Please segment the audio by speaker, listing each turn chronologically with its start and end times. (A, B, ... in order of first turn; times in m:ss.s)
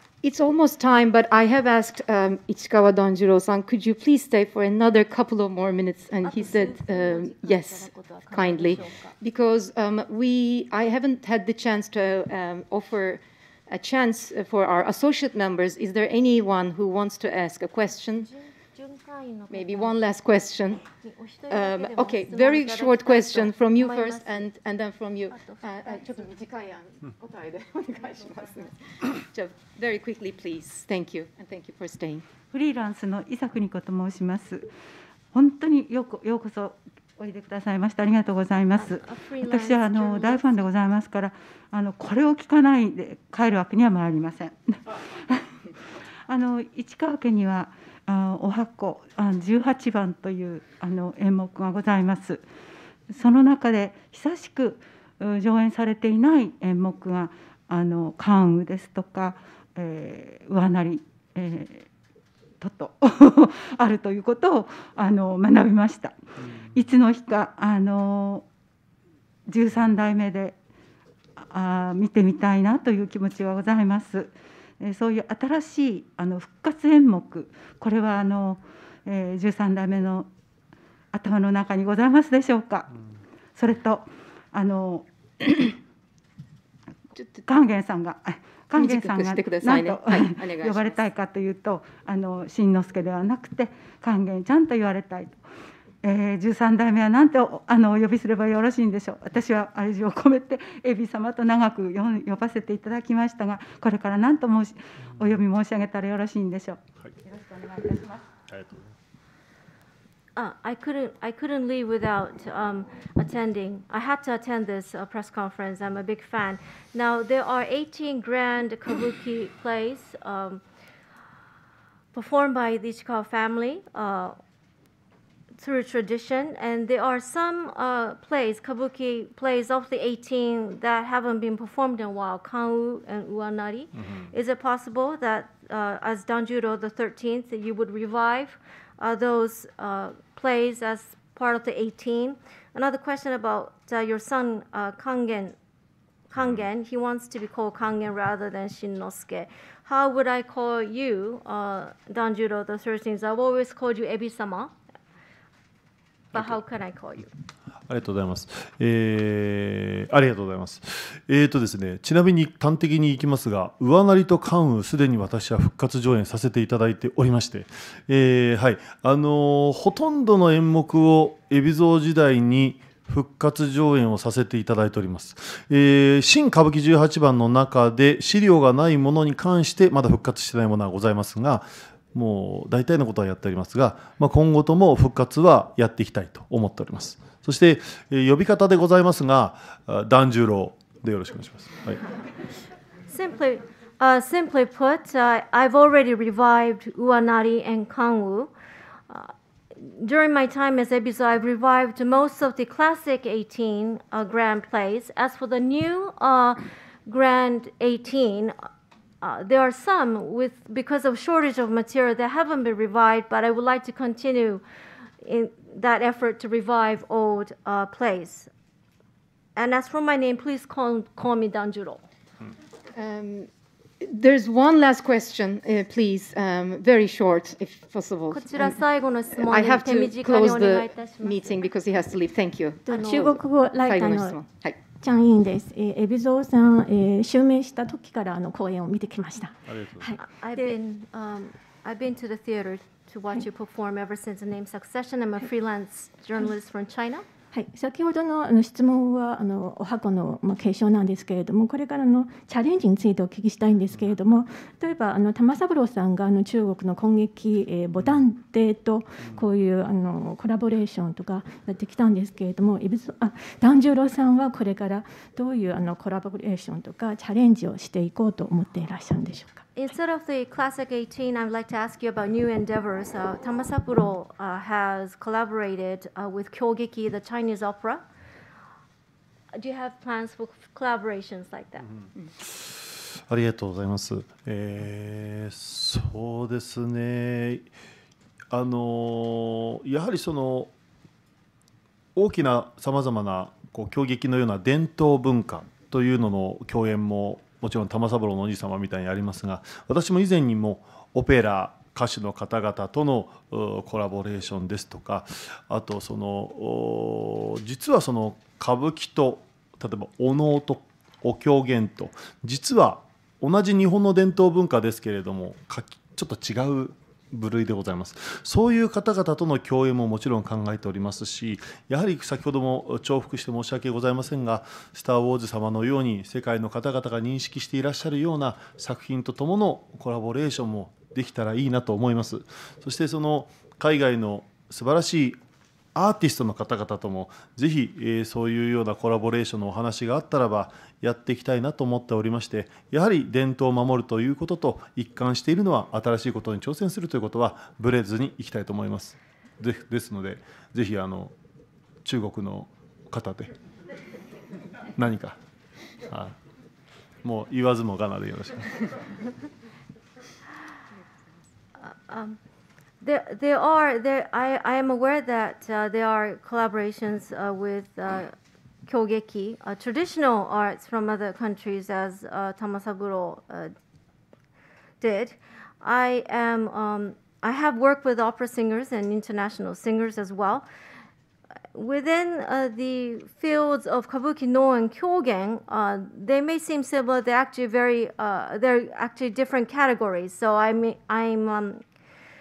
0:00.2-0:18.3 A
0:06.2-0:09.1 B
0:18.2-0:20.0 B
0:19.5-0:20.8 A
0:21.0-0:24.5 B
0:21.5-0:32.2 A
0:25.3-0:25.9 B
0:32.5-0:34.7 C
0:35.3-0:45.4 C
0:38.7-0:40.7 B
0:46.3-0:52.4 C
0:53.1-1:01.9 C
1:02.6-1:06.2 C
1:06.7-1:08.5 C
1:09.5-1:10.6 C
1:11.4-1:20.3 C
1:21.1-1:22.9 C
1:23.6-1:25.7 C
1:27.2-1:27.4 A
1:27.5-1:35.4 C
1:28.7-1:31.0 A
1:36.0-1:48.2 C
1:48.5-1:48.9 D
1:50.4-2:00.6 B
2:02.1-2:04.3 B
2:05.6-2:25.6 B
2:26.3-2:34.7 B
2:26.4-2:26.6 D
2:36.3-2:37.3 B
2:37.9-3:12.0 D
3:13.1-3:18.5 B
3:19.1-3:28.5 B
3:29.2-3:34.6 B
3:35.2-3:38.5 B
3:39.6-3:42.0 B
3:42.9-3:43.5 A
3:44.0-3:48.8 A
3:48.3-3:51.6 B
3:49.4-3:54.8 A
3:52.9-3:54.4 E
3:52.9-3:53.4 B
3:55.0-4:00.7 E
3:59.7-4:00.1 D
4:00.2-4:07.2 B
4:07.5-4:29.6 E
4:18.0-4:18.2 D
4:29.8-4:38.0 B
4:39.5-4:41.9 B
4:42.4-4:47.6 D
4:48.5-4:50.7 D
4:52.1-5:35.4 D
5:35.9-5:51.3 D
5:52.0-5:53.5 D
5:55.0-5:55.4 D
5:56.0-5:56.3 D
5:57.2-5:59.0 D
6:01.8-6:02.4 B
6:03.0-6:08.3 B
6:08.9-6:13.7 B
6:15.0-6:20.6 B
6:21.7-6:31.8 B